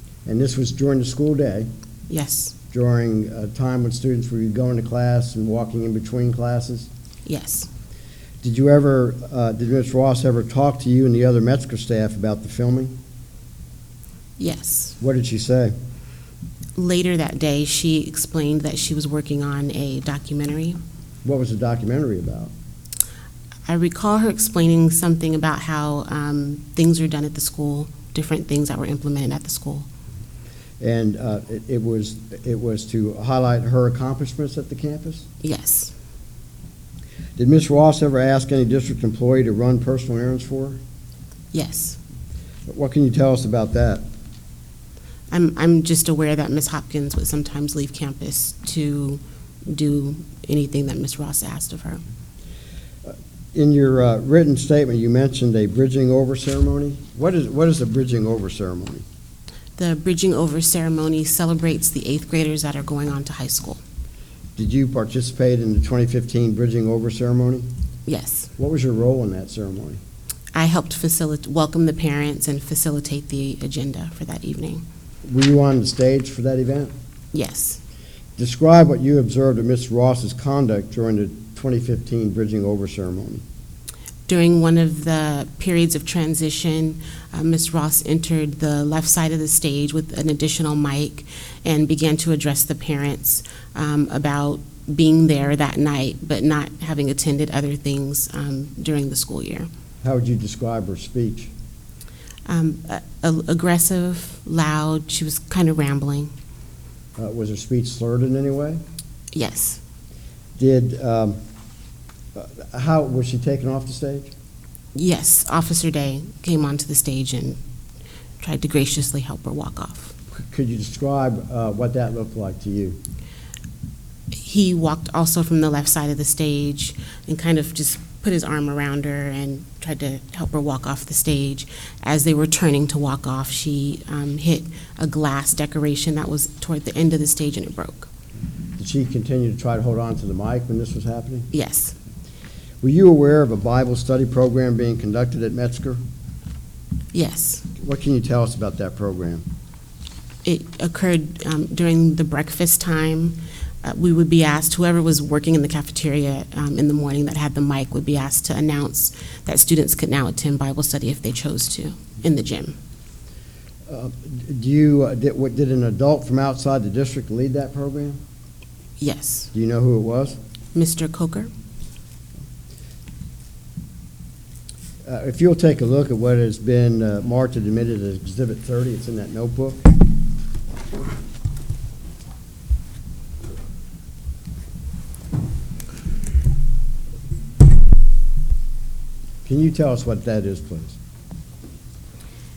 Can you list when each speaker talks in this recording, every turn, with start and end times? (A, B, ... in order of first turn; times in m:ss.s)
0:00.2-0:01.7 A
0:02.1-0:02.5 B
0:02.7-0:06.9 A
0:07.2-0:07.7 B
0:08.4-0:12.9 A
0:14.4-0:15.0 B
0:15.0-0:15.7 A
0:16.8-0:20.8 B
0:21.2-0:22.5 A
0:23.7-0:29.9 B
0:30.8-0:35.2 A
0:35.4-0:35.9 B
0:37.4-0:40.8 A
0:41.5-0:42.0 B
0:42.7-0:44.0 A
0:45.3-0:52.0 B
0:53.0-0:59.0 A
0:59.8-1:03.8 B
1:04.6-1:07.7 A
1:08.1-1:08.5 B
1:08.6-1:10.0 A
1:10.5-1:14.8 B
1:15.2-1:16.9 A
1:17.3-1:17.8 B
1:18.4-1:23.4 A
1:24.3-1:39.7 B
1:40.0-1:41.5 A
1:42.4-1:46.3 B
1:47.2-1:48.8 A
1:49.3-1:49.8 B
1:50.6-1:51.4 A
1:52.3-1:54.3 A
1:54.9-1:57.6 B
1:58.4-2:00.1 B
2:00.4-2:03.0 A
2:04.4-2:18.1 B
2:18.8-2:21.5 A
2:21.5-2:21.9 B
2:22.8-2:26.0 A
2:27.1-2:27.7 B
2:27.8-2:29.4 A
2:30.4-2:42.8 B
2:43.9-2:48.2 A
2:49.0-2:49.5 B
2:49.5-2:50.4 A
2:50.7-2:51.5 B
2:55.0-2:59.8 A
3:09.4-3:11.0 A